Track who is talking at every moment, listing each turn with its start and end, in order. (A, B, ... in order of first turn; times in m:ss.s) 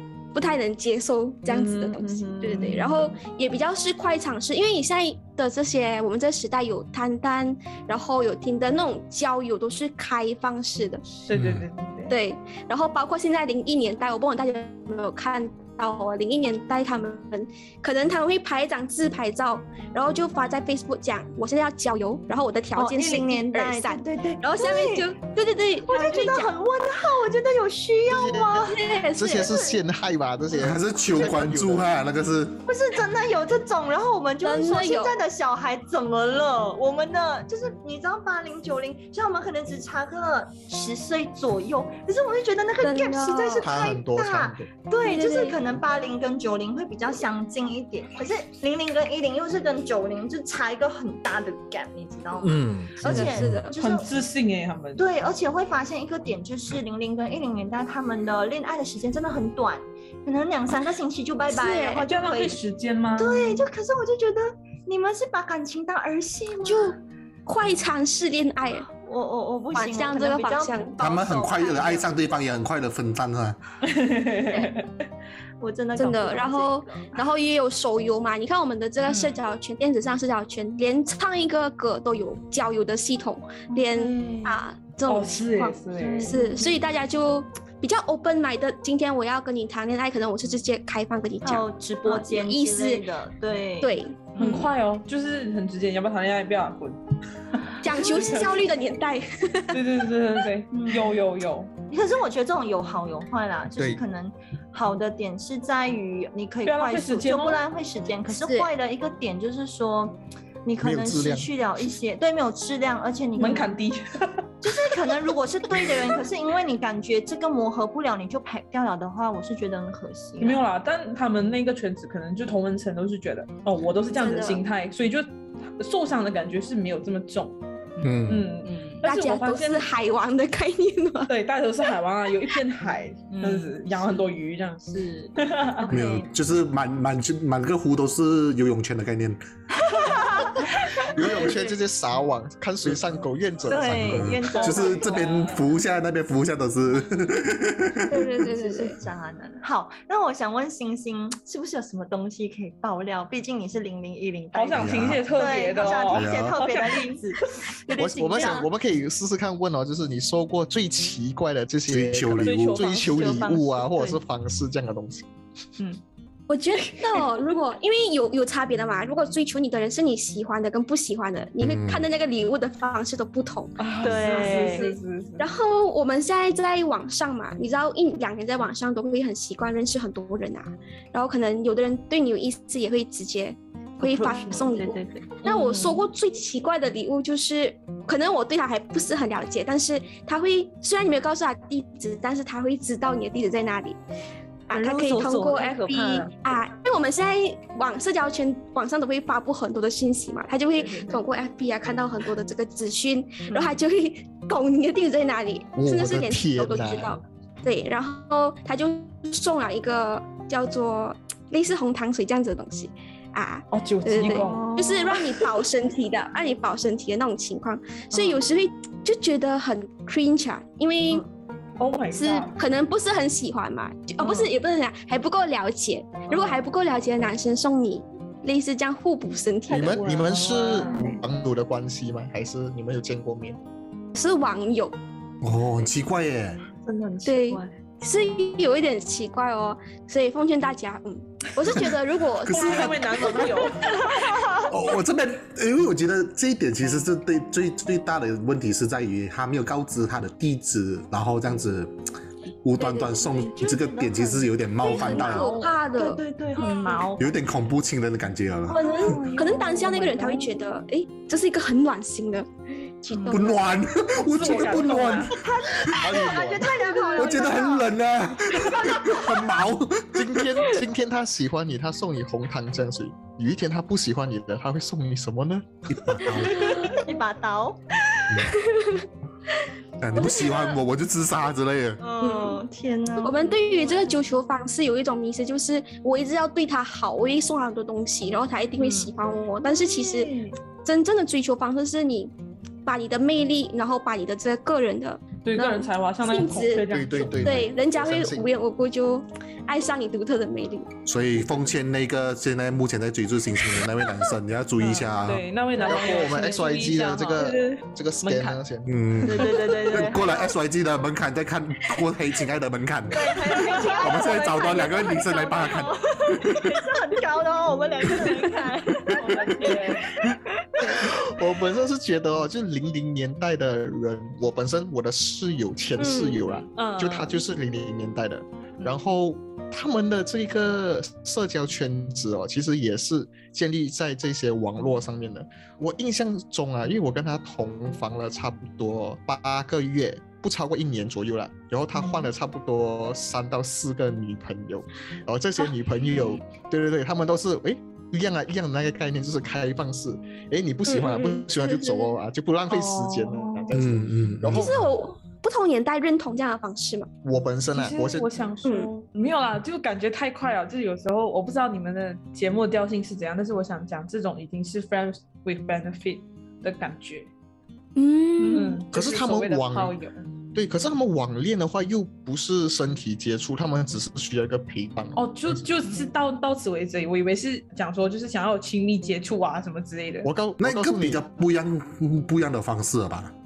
0:00.3-0:11.0 A
0:01.5-0:03.1 B
0:11.2-0:12.2 B
0:11.3-0:11.7 C
0:12.1-0:26.5 A
0:22.7-0:25.1 D
0:25.9-0:28.8 D
0:28.1-0:28.6 E
0:28.5-0:29.7 A
0:29.1-0:31.9 E
0:30.5-0:32.6 C
0:32.6-0:54.2 D
0:34.4-0:35.2 A
0:42.8-0:43.7 A
0:43.5-0:44.7 E
0:45.0-0:45.6 A
0:52.4-0:53.5 C
0:53.0-0:53.8 A
0:53.8-0:55.0 B
0:55.0-1:02.6 D
1:01.5-1:02.1 A
1:02.0-1:03.7 B
1:03.2-1:06.9 D
1:06.6-1:08.9 A
1:08.9-1:12.2 D
1:09.7-1:11.0 A
1:11.0-1:13.6 C
1:13.8-1:14.9 B
1:15.6-1:17.2 D
1:16.0-1:33.1 A
1:24.0-1:24.5 B
1:25.1-1:26.4 B
1:26.0-1:26.7 D
1:31.4-1:34.6 D
1:33.8-1:34.7 A
1:34.4-1:37.0 B
1:37.5-1:38.6 B
1:37.8-1:39.8 A
1:38.0-1:38.6 D
1:39.7-1:41.7 B
1:40.7-1:41.2 D
1:41.9-1:53.8 D
1:43.8-1:44.0 E
1:46.6-1:47.6 B
1:48.3-1:48.7 A
1:50.8-1:51.5 E
1:53.4-1:54.9 B
1:54.6-2:00.6 D
2:00.4-2:07.6 B
2:04.2-2:04.6 A
2:08.0-2:08.5 C
2:08.3-2:09.9 B
2:08.6-2:09.0 D
2:09.0-2:11.3 A
2:11.3-2:14.8 B
2:13.3-2:14.2 D
2:14.8-2:16.3 D
2:15.4-2:15.9 B
2:15.9-2:19.4 C
2:19.8-2:21.6 D
2:21.1-2:24.3 E
2:21.2-2:21.7 B
2:23.7-2:25.6 D
2:23.8-2:28.2 C
2:24.4-2:25.5 B
2:28.1-2:29.0 A
2:28.1-2:38.7 D
2:34.5-2:37.3 B
2:34.7-2:35.3 C
2:36.1-2:36.6 C
2:38.0-2:45.3 E
2:41.9-2:42.8 C
2:42.4-2:43.5 B
2:42.8-2:44.2 D
2:46.5-3:14.0 A
2:46.8-2:47.2 B
2:51.6-2:52.0 C
2:53.8-2:55.5 B
2:54.0-2:54.9 D
3:04.0-3:05.4 D
3:05.4-3:06.0 B
3:14.7-3:41.2 A
3:14.7-3:16.3 D
3:23.5-3:23.8 D
3:25.8-3:27.2 E
3:33.7-3:35.2 B
3:34.4-3:34.8 D
3:41.8-3:42.6 B
3:42.1-3:50.1 A
3:46.3-3:46.6 B
3:49.7-3:51.1 B
3:49.7-3:53.6 E
3:54.1-3:55.0 A
3:55.4-3:56.6 C
3:56.8-3:57.7 D
3:57.2-4:03.7 A
4:01.6-4:03.6 C
4:02.5-4:04.4 B
4:03.8-4:04.6 D
4:04.6-4:11.9 C
4:12.6-4:15.6 C
4:12.8-4:17.3 D
4:14.8-4:17.1 A
4:17.2-4:19.2 C
4:18.7-4:22.5 A
4:18.8-4:20.5 D
4:19.4-4:19.8 B
4:23.0-4:23.6 A
4:23.1-4:23.6 D
4:23.3-4:26.0 C
4:24.2-4:25.3 B
4:25.3-4:29.4 D
4:25.9-4:26.7 E
4:26.7-4:27.6 A
4:27.1-4:30.7 C
4:30.1-4:36.2 E
4:35.9-4:36.8 C
4:36.3-4:38.2 D
4:36.4-4:37.1 A
4:38.3-4:38.6 C
4:38.4-4:39.0 A
4:40.0-4:42.0 C
4:40.1-4:40.5 D
4:40.2-4:40.5 A
4:42.0-4:44.2 D
4:42.2-4:42.6 A
4:43.2-4:50.3 A
4:48.8-4:49.1 D
4:49.7-4:50.5 D
4:50.8-4:52.3 A
4:52.8-4:56.8 A
4:55.4-4:57.4 B
4:56.9-4:58.5 E
4:57.2-4:57.6 C
4:57.4-5:00.9 A
5:01.0-5:05.5 C
5:04.8-5:08.6 B
5:05.7-5:07.4 D
5:05.8-5:08.9 E
5:08.8-5:16.8 C
5:09.2-5:10.5 D
5:13.1-5:21.0 D
5:18.4-5:20.1 B
5:20.8-5:54.7 E
5:26.0-5:26.3 A
5:26.7-5:27.4 B
5:50.9-5:52.1 A
5:52.7-5:53.7 B
5:53.7-5:54.8 C
5:54.4-5:57.1 A
5:57.2-5:58.4 E
5:57.7-6:07.3 B
5:58.6-5:58.9 A
6:08.0-6:08.8 A
6:08.4-6:10.2 B
6:08.9-6:10.0 E
6:10.5-6:15.6 E
6:15.2-6:20.3 B
6:20.2-6:21.2 E
6:20.6-6:23.3 C